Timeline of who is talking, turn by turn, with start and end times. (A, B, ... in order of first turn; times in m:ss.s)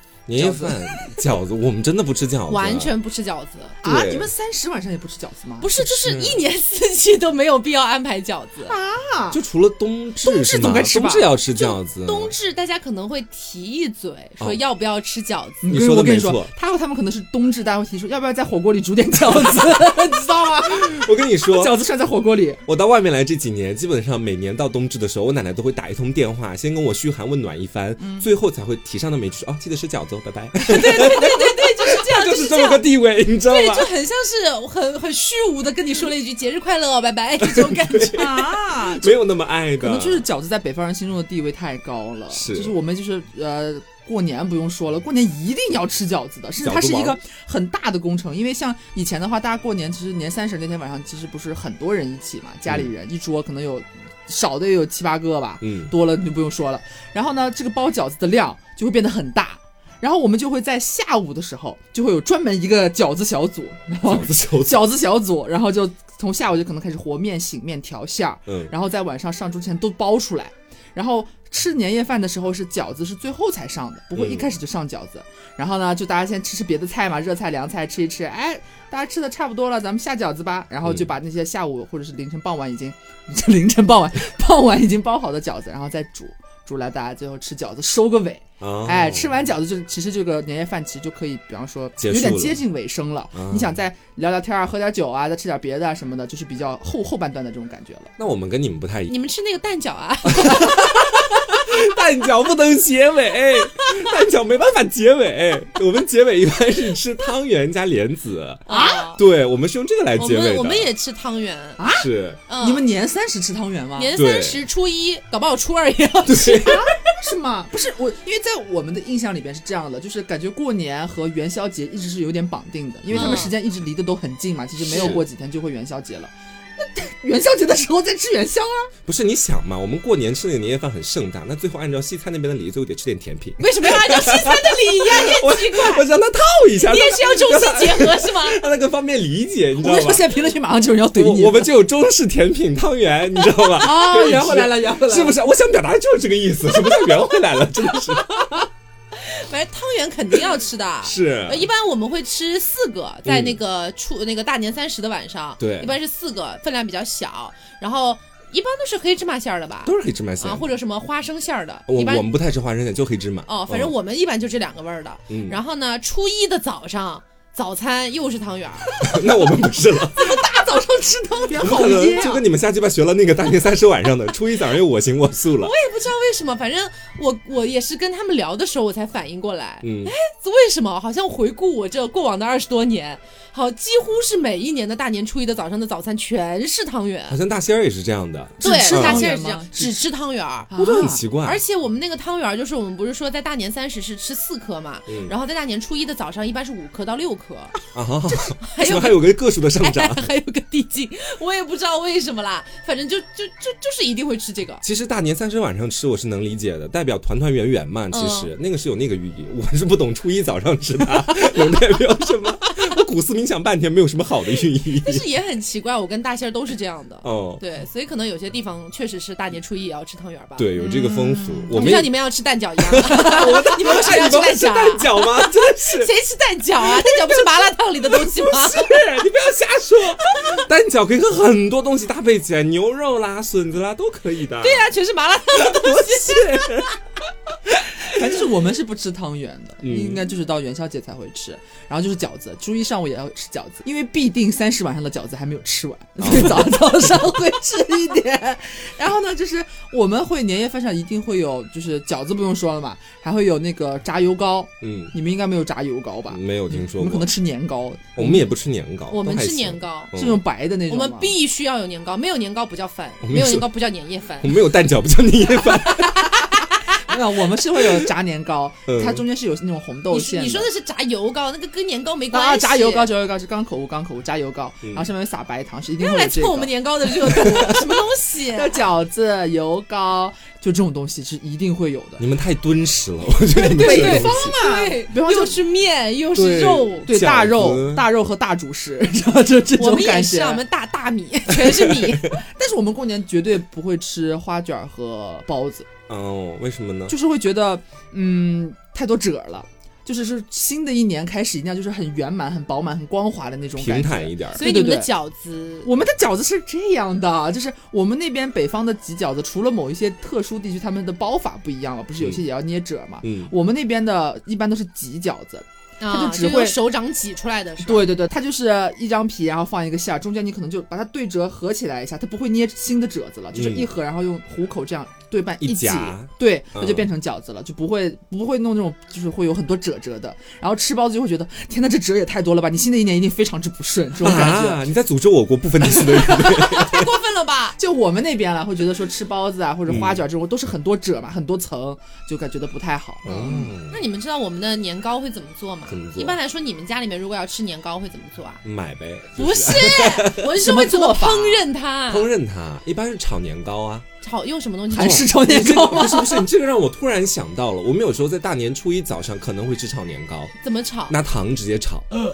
0:00.3-0:02.9 A
0:00.4-0:00.9 B
0:02.5-0:03.8 C
0:03.8-0:04.3 A
0:03.8-0:05.7 B
0:05.6-0:08.8 C
0:05.8-0:06.4 A
0:08.7-0:09.4 B
0:09.3-0:12.3 A
0:10.2-0:11.3 B
0:11.5-0:15.7 C
0:15.6-0:22.6 B
0:15.7-0:16.5 A
0:20.7-0:21.8 A
0:22.6-0:33.9 A
0:28.0-0:28.3 B
0:30.7-0:32.9 C
0:33.4-0:38.5 C
0:37.4-0:40.3 A
0:38.1-0:39.2 B
0:39.8-1:38.1 B
0:42.3-0:42.8 A
0:46.6-0:47.2 A
0:55.6-0:55.9 A
1:04.0-1:04.9 A
1:08.5-1:08.7 A
1:14.2-1:14.5 A
1:20.8-1:21.1 A
1:28.6-1:29.4 A
1:32.0-1:32.6 A
1:33.3-1:33.7 A
1:38.2-1:39.2 A
1:39.1-1:41.1 C
1:40.3-1:50.9 A
1:48.7-1:49.2 C
1:48.7-1:49.1 B
1:50.2-1:51.8 C
1:51.8-1:54.2 B
1:51.9-1:52.4 A
1:52.5-1:52.8 C
1:53.9-1:57.1 C
1:54.1-1:54.6 A
1:56.3-1:56.8 A
1:56.6-2:08.9 B
2:03.1-2:03.5 A
2:03.1-2:03.6 C
2:04.8-2:05.3 A
2:04.9-2:05.2 C
2:09.0-2:20.4 A
2:13.6-2:16.1 C
2:16.8-2:18.6 C
2:19.8-2:21.7 B
2:21.1-2:28.3 A
2:23.7-2:25.4 B
2:28.3-2:28.6 C
2:29.1-2:42.3 C
2:31.0-2:31.7 A
2:33.2-2:33.6 A
2:35.6-2:36.0 A
2:39.8-2:40.7 A
2:41.9-2:43.9 A
2:43.5-2:48.9 C
2:45.3-2:45.6 A
2:49.0-2:49.3 B
2:49.0-2:50.4 A
2:50.1-2:52.4 B
2:51.6-2:55.7 A
2:55.6-3:07.4 C
2:59.8-3:00.1 A
3:07.3-3:09.3 A
3:08.6-3:10.1 B
3:08.6-3:17.8 C
3:10.7-3:11.2 B
3:10.8-3:11.6 A
3:15.1-3:15.3 A
3:17.9-3:20.3 A
3:18.6-3:24.8 C
3:24.8-3:35.2 A
3:28.1-3:28.5 C
3:35.0-3:41.2 C
3:37.2-3:37.6 A
3:40.6-3:42.1 A
3:40.8-3:42.0 B
3:41.7-3:49.0 C
3:42.8-3:46.1 A
3:48.2-3:54.9 A
3:50.3-3:50.6 C
3:54.6-3:56.9 C
3:55.5-3:56.9 A
3:58.0-4:18.5 B
3:59.8-4:00.3 A
4:06.2-4:06.8 A
4:14.8-4:15.1 A
4:16.3-4:17.3 A
4:18.2-4:20.4 A
4:19.1-4:20.1 C
4:20.1-4:21.4 B
4:20.9-4:24.6 C
4:23.2-4:23.7 A
4:24.4-4:26.5 A
4:25.6-4:26.7 C
4:27.0-4:30.7 B
4:27.8-4:28.1 A
4:28.9-4:29.2 A
4:30.1-4:33.1 C
4:32.3-4:38.0 B
4:36.0-4:38.8 C
4:38.5-4:42.2 B
4:42.2-4:44.6 A
4:43.6-4:45.6 B
4:43.6-4:47.1 C
4:46.4-4:48.1 A
4:46.4-4:50.6 B
4:49.8-4:52.4 C
4:51.6-4:52.1 A
4:52.1-4:55.9 B
4:56.1-4:57.2 A
4:57.1-5:05.1 B
5:03.8-5:04.7 A
5:04.6-5:05.9 C
5:05.8-5:16.8 B
5:13.2-5:13.5 A
5:16.0-5:18.1 C
5:17.8-5:34.9 B
5:23.5-5:23.9 A
5:25.6-5:27.1 A
5:34.2-5:37.1 A
5:35.9-5:36.6 B
5:36.2-5:37.8 C
5:37.8-5:43.7 B
5:39.9-5:40.2 A
5:43.2-5:44.0 A
5:43.3-5:48.6 C
5:45.9-5:46.4 A
5:48.6-5:50.5 A
5:49.4-5:52.3 C
5:50.6-5:51.6 B
5:52.1-5:54.1 A
5:54.2-5:55.8 C
5:54.9-5:56.5 B
5:55.0-6:00.5 A
6:00.6-6:01.2 C
6:01.1-6:02.1 A